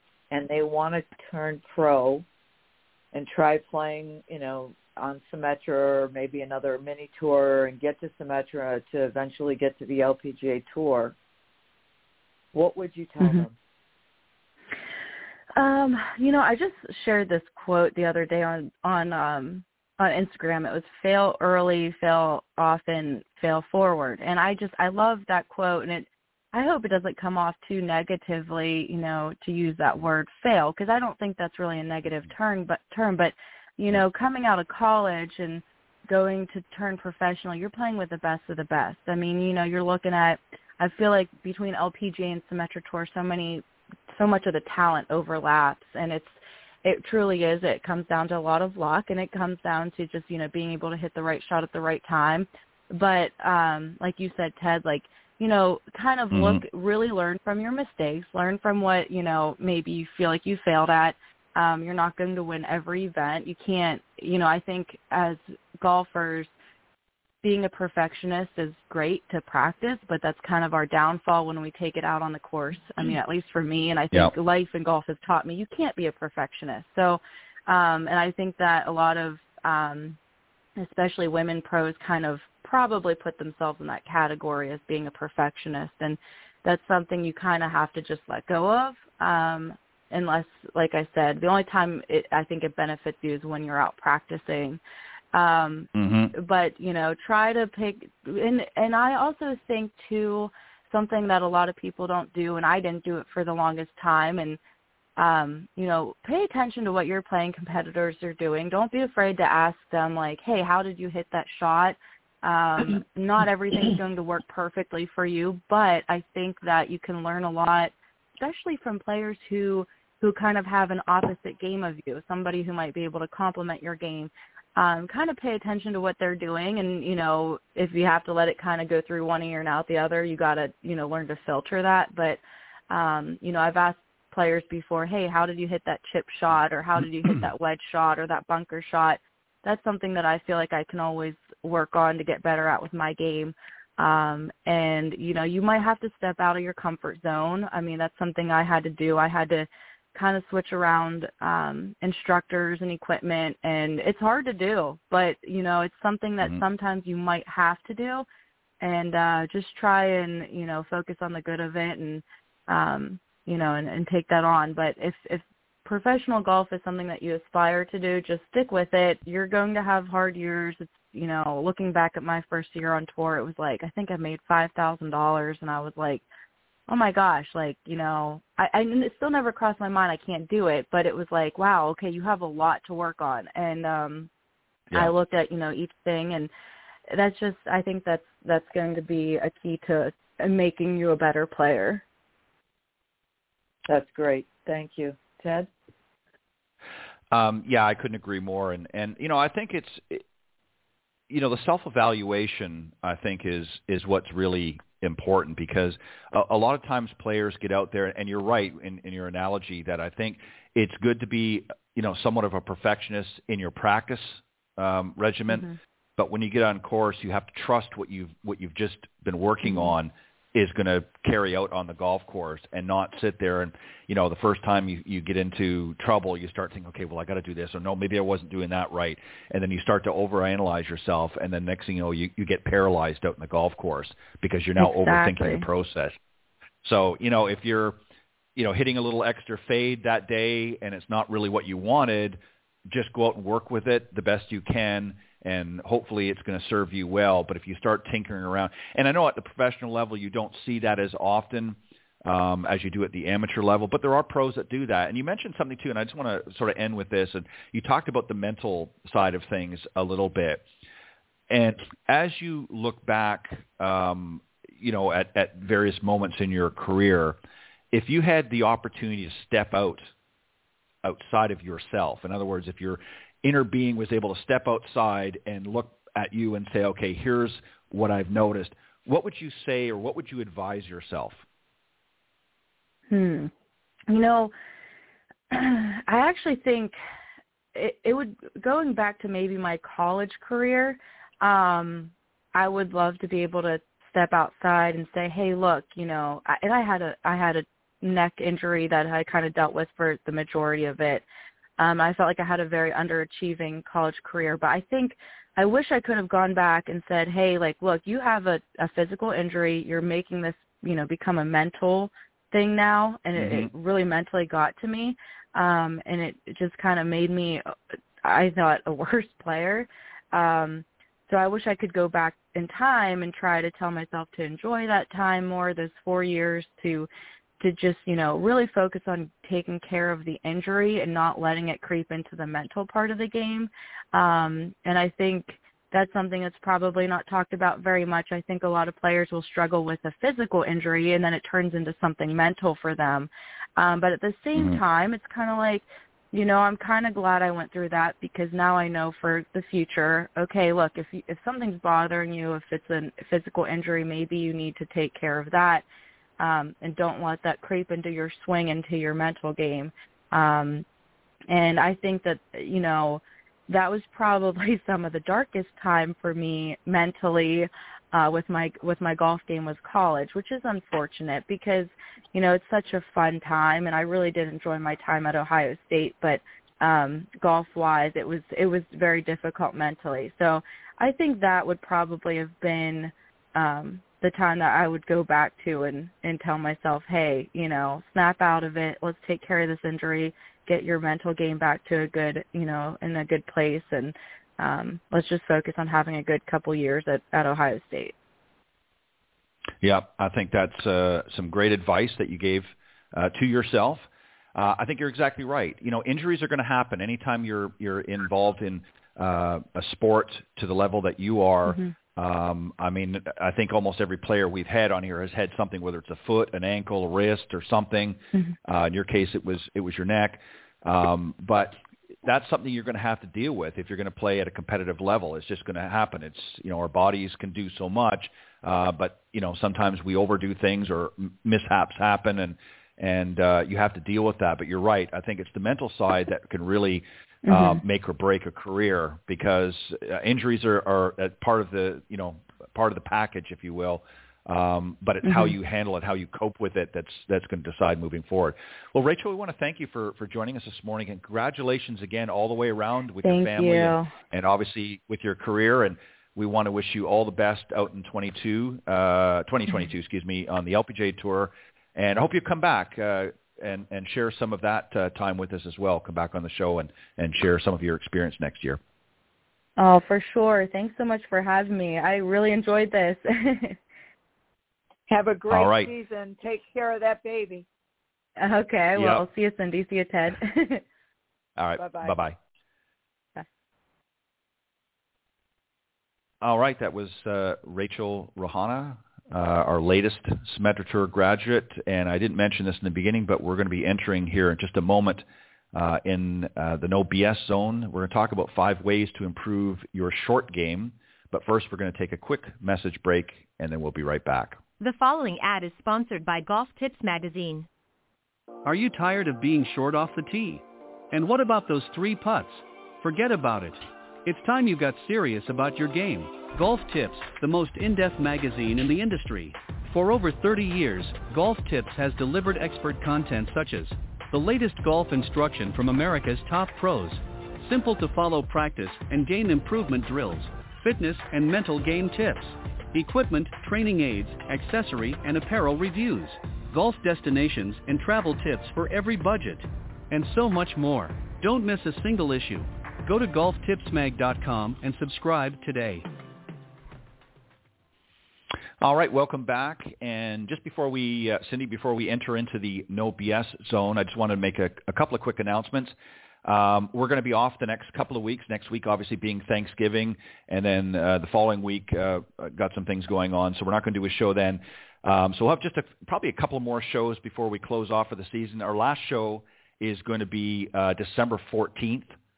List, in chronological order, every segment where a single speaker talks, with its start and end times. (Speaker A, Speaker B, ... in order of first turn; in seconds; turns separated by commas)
Speaker A: 0.3-2.2, Speaker A: 3.1-11.1, Speaker A: 12.5-13.5, Speaker B: 15.6-66.5, Speaker C: 56.3-56.6, Speaker B: 67.4-80.2, Speaker B: 80.8-94.8, Speaker B: 95.3-104.6, Speaker C: 95.9-96.3, Speaker B: 105.2-158.2, Speaker B: 158.8-176.2, Speaker B: 176.9-184.3, Speaker B: 184.9-186.5, Speaker B: 187.1-192.0, Speaker A: 193.9-195.7, Speaker C: 197.3-200.2, Speaker C: 201.3-236.2, Speaker B: 234.8-235.6, Speaker C: 236.8-238.0, Speaker C: 238.6-260.6, Speaker C: 261.5-267.4, Speaker C: 267.9-270.1, Speaker C: 271.0-281.4, Speaker B: 283.1-283.5, Speaker B: 284.1-284.5, Speaker B: 285.5-286.9, Speaker B: 287.7-301.2, Speaker B: 301.8-317.6, Speaker C: 313.4-313.7, Speaker B: 318.2-327.1, Speaker B: 327.6-355.8, Speaker B: 356.4-360.8, Speaker B: 361.5-398.1, Speaker C: 399.8-468.8, Speaker B: 437.5-437.8, Speaker B: 453.2-454.1, Speaker B: 469.8-473.8, Speaker A: 475.1-477.6, Speaker C: 475.5-475.9, Speaker B: 478.4-480.8, Speaker C: 478.9-479.2, Speaker C: 481.6-482.4, Speaker A: 481.8-482.2, Speaker C: 486.4-504.6, Speaker D: 504.8-507.7, Speaker E: 508.6-546.1, Speaker C: 548.8-572.1